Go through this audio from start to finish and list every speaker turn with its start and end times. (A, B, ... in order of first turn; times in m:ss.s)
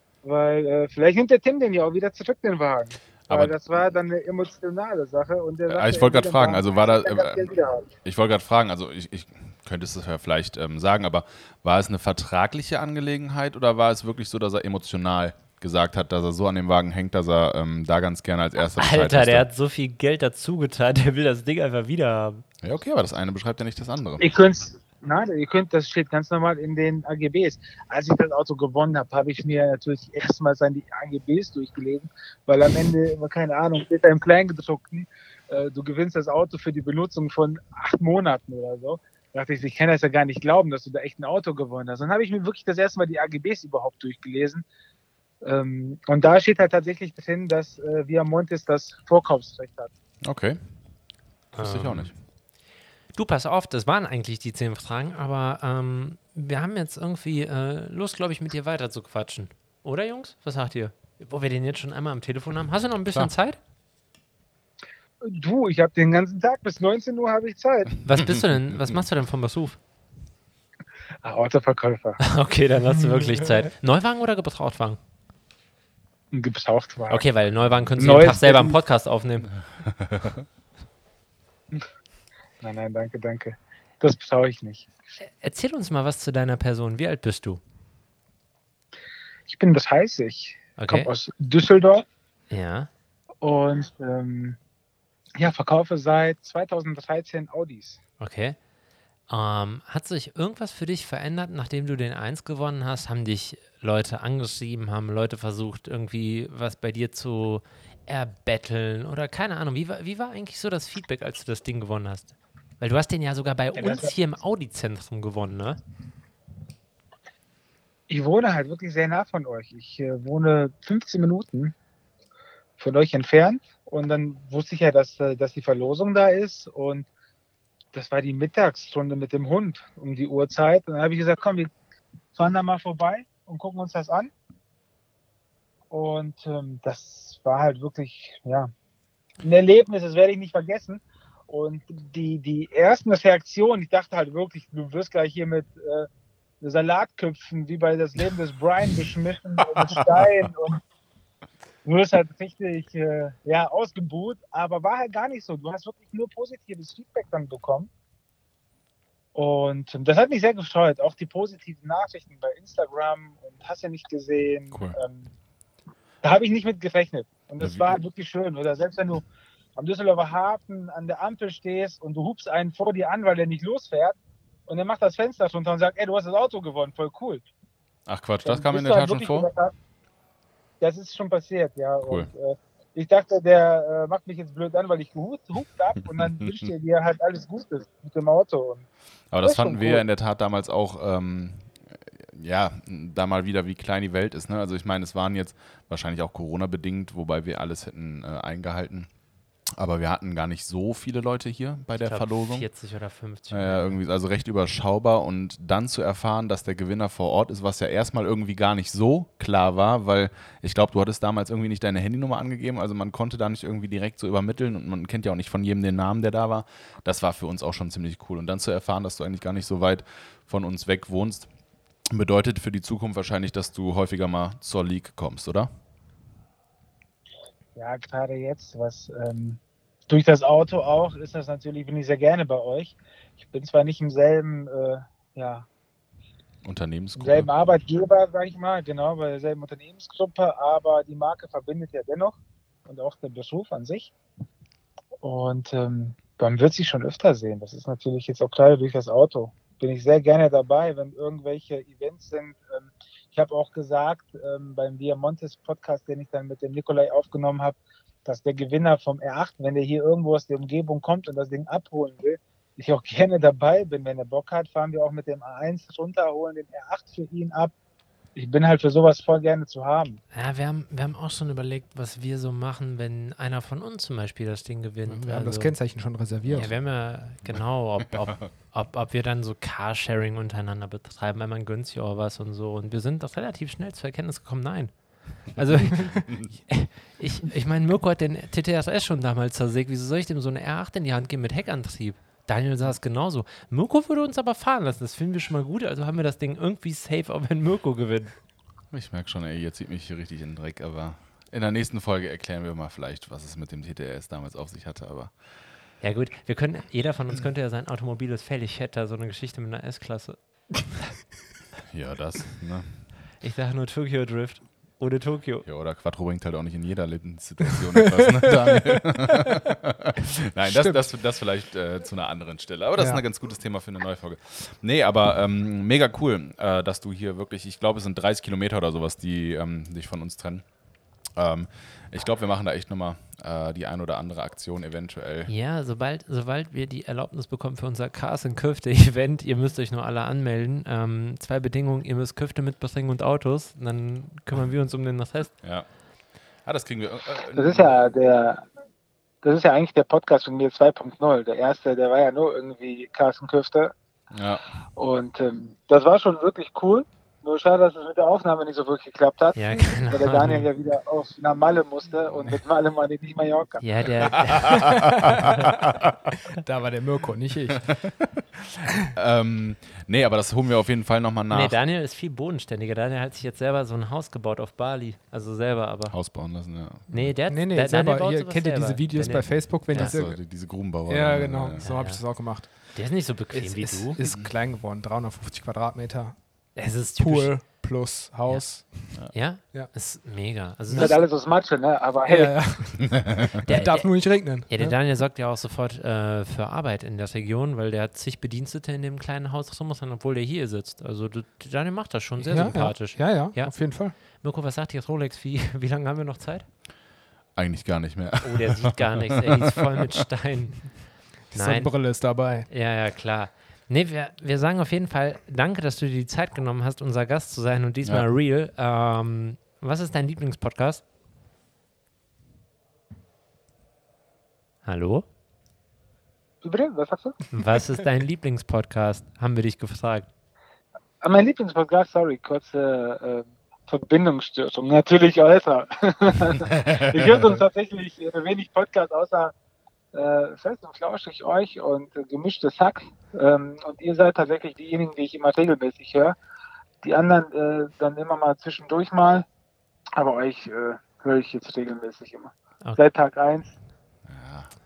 0:00.2-0:07.9 A
0:03.3-0:03.8 B
0:05.7-0:07.5 B
0:08.0-0:19.5 B
0:18.8-0:22.4 C
0:22.6-0:24.3 B
0:24.2-0:44.6 A
0:45.4-0:49.9 A
0:50.2-0:50.6 B
0:51.6-0:52.1 C
0:51.6-0:52.1 B
0:53.1-1:03.6 C
1:05.2-1:08.0 A
1:08.0-1:09.8 C
1:11.2-1:12.2 A
1:12.2-1:15.0 C
1:16.3-1:17.2 A
1:17.1-1:19.5 C
1:18.0-1:18.8 A
1:19.8-1:20.4 B
1:22.6-1:24.9 A
1:25.2-1:27.6 C
1:29.5-1:32.0 A
1:30.8-1:31.1 C
1:32.5-1:32.9 C
1:33.4-1:34.6 A
1:35.4-1:38.0 A
1:38.2-1:38.6 C
1:39.3-1:55.8 C
1:53.8-1:54.1 A
1:58.1-2:01.7 A
2:02.8-2:07.1 A
2:07.9-2:11.7 A
2:12.4-2:14.3 A
2:15.9-2:18.7 A
2:19.4-2:26.1 A
2:26.6-2:30.8 A
2:31.8-2:37.9 A
2:39.4-2:45.3 A
2:44.7-2:45.0 B
2:46.2-2:49.2 A
2:47.6-2:47.9 B
2:49.8-2:54.2 A
2:54.7-2:57.4 A
2:58.1-2:59.5 B
2:58.4-2:59.7 A
3:00.8-3:08.9 A
3:06.2-3:06.5 B
3:09.3-3:19.1 B
3:09.4-3:10.0 A
3:19.8-3:22.7 B
3:22.0-3:24.0 C
3:23.5-3:41.5 B
3:42.1-3:45.7 B
3:47.8-3:55.7 A
3:56.6-3:57.5 B
3:57.2-4:04.1 A
4:05.2-4:27.7 A
4:28.4-4:30.2 A
4:30.3-4:35.8 C
4:35.1-4:36.7 D
4:36.4-4:36.7 B
4:36.6-4:58.3 C
4:37.4-4:38.5 B
4:46.0-4:46.5 B
4:58.9-5:05.3 B
5:06.0-5:11.1 C
5:11.9-5:13.1 B
5:13.4-5:15.6 C
5:15.6-5:30.7 B
5:18.1-5:19.0 D
5:20.6-5:21.1 D
5:23.0-5:23.2 D
5:31.4-5:35.5 B
5:35.5-5:45.5 C
5:46.6-5:47.9 B
5:47.6-5:48.6 A
5:49.4-5:53.9 A
5:54.3-5:54.6 B
5:55.0-6:03.8 A
5:59.6-6:00.7 C
6:03.8-6:05.1 C
6:04.4-6:06.3 B
6:05.2-6:05.6 D
6:06.5-6:07.9 D
6:08.7-6:11.8 B
6:11.5-6:16.2 C
6:16.1-6:17.3 B
6:17.1-6:20.2 C
6:17.5-6:20.4 D
6:19.9-6:21.9 B
6:21.1-6:23.0 D
6:21.8-6:24.2 C
6:23.5-6:26.4 D
6:24.2-6:24.5 B
6:26.8-6:27.6 C
6:27.2-6:29.2 D
6:29.3-6:31.2 C
6:30.9-6:31.2 D
6:31.0-6:32.6 A
6:32.2-6:35.0 D
6:33.0-6:33.6 B
6:33.6-6:46.7 C
6:42.4-6:44.2 D
6:47.6-6:49.5 B
6:48.4-6:51.0 C
6:51.5-6:52.7 D
6:51.5-6:51.9 C
6:52.7-7:01.0 C
7:04.8-7:05.2 C
7:06.6-7:07.4 A
7:07.5-7:10.3 C
7:11.2-7:19.5 A
7:16.7-7:17.5 B
7:20.1-7:26.4 A
7:27.0-7:29.5 A
7:30.2-7:33.7 A
7:34.3-7:34.7 B